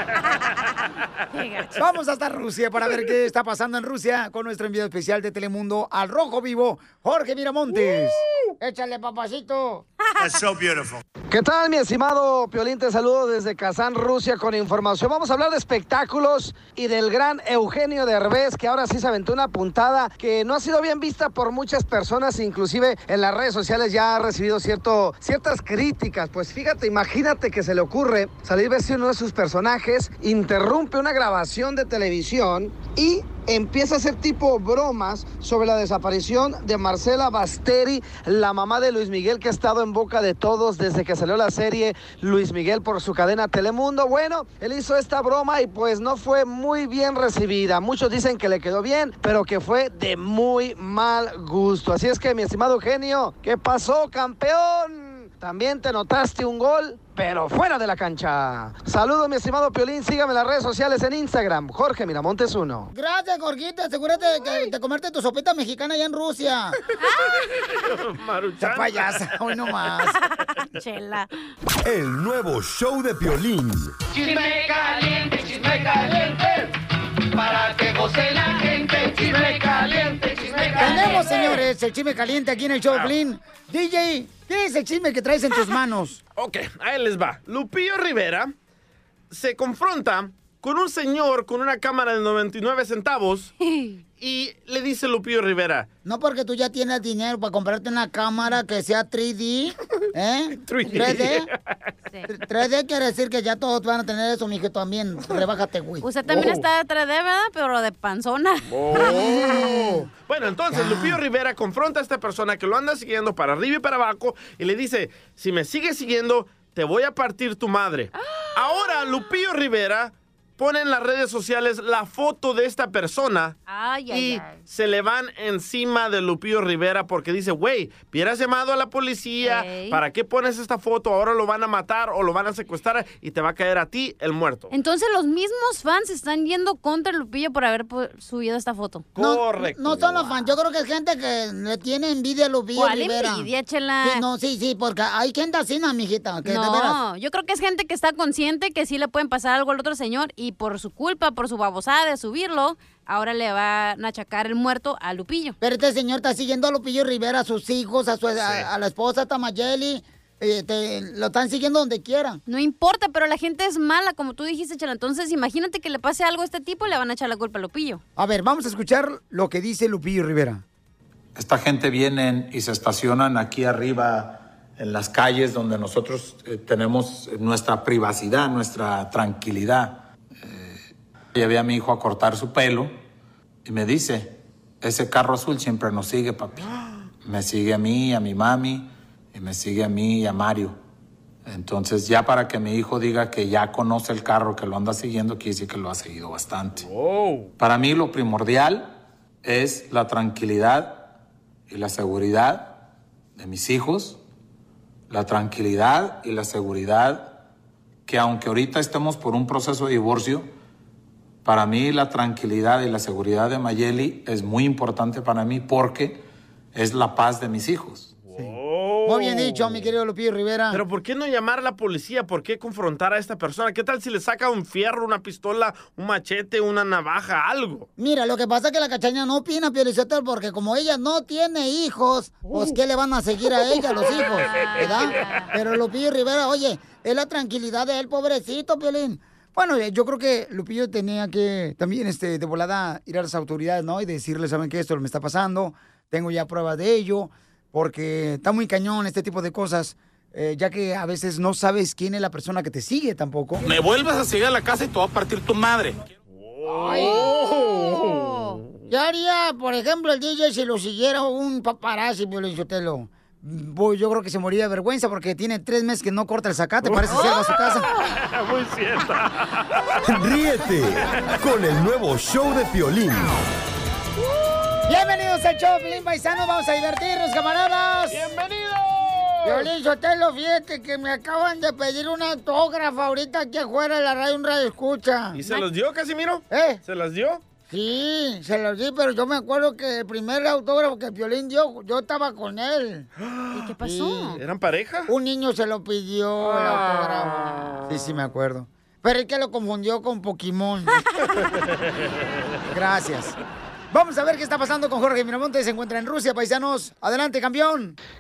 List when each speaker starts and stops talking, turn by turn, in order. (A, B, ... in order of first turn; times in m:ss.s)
0:01.3-0:01.8 A
0:01.8-0:09.8 B
0:10.3-0:10.8 C
0:11.3-1:02.9 D
1:02.9-1:06.8 B
1:07.0-1:07.8 A
1:07.7-1:09.2 C
1:08.6-1:10.2 B
1:10.2-1:11.3 A
1:11.8-1:13.9 E
1:17.6-1:18.2 D
1:19.7-1:21.5 A
1:20.8-1:26.2 B
1:26.4-1:28.5 C
1:29.3-1:33.5 C
1:33.6-1:34.0 A
1:34.2-1:35.9 C
1:36.0-1:41.5 B
1:40.6-1:41.6 C
1:42.3-1:46.1 B
1:46.0-1:49.7 A
1:46.3-1:46.6 C
1:48.7-2:03.6 C
1:48.9-1:50.1 B
1:50.7-1:51.2 B
1:58.2-1:59.3 A
2:03.7-2:04.6 A
2:04.1-2:14.7 C
2:09.4-2:10.0 A
2:14.7-2:19.1 A
2:19.2-2:20.3 C
2:19.2-2:23.5 B
2:22.8-2:24.2 A
2:24.0-2:27.0 B
2:26.4-2:35.6 A
2:35.6-2:42.4 B
2:38.4-2:38.7 C
2:42.5-2:48.0 A
2:48.2-2:50.6 B
2:51.4-3:03.0 F
3:03.6-3:06.7 F
3:07.2-3:10.8 F
3:11.5-3:16.9 F
3:16.8-3:17.5 C
3:17.6-3:21.1 F
3:21.7-3:22.8 F
3:23.4-3:24.2 F
3:25.1-3:27.4 F
3:28.1-3:30.5 F
3:31.4-3:36.2 F
3:36.7-3:38.1 F
3:38.3-3:39.9 C
3:39.1-3:40.8 B
3:40.7-3:47.9 C
3:48.0-4:13.6 B
3:54.8-3:55.5 A
4:13.6-4:16.0 G
4:16.4-4:18.7 C
4:16.6-4:17.3 B
4:17.5-4:18.6 A
4:18.9-4:27.9 B
4:26.8-4:30.0 C
4:27.1-4:27.9 A
4:30.0-4:33.4 E
4:34.9-4:38.3 B
4:38.1-4:39.7 C
4:39.4-4:45.4 B
4:45.3-4:47.4 C
4:46.5-4:46.8 B
4:47.7-4:53.1 B
4:53.2-4:53.7 C
4:53.5-4:54.4 A
4:53.8-4:54.4 B
4:54.4-4:55.1 C
4:55.1-5:01.0 B
4:56.6-4:57.8 C
5:02.7-5:03.4 B
5:03.9-5:08.0 B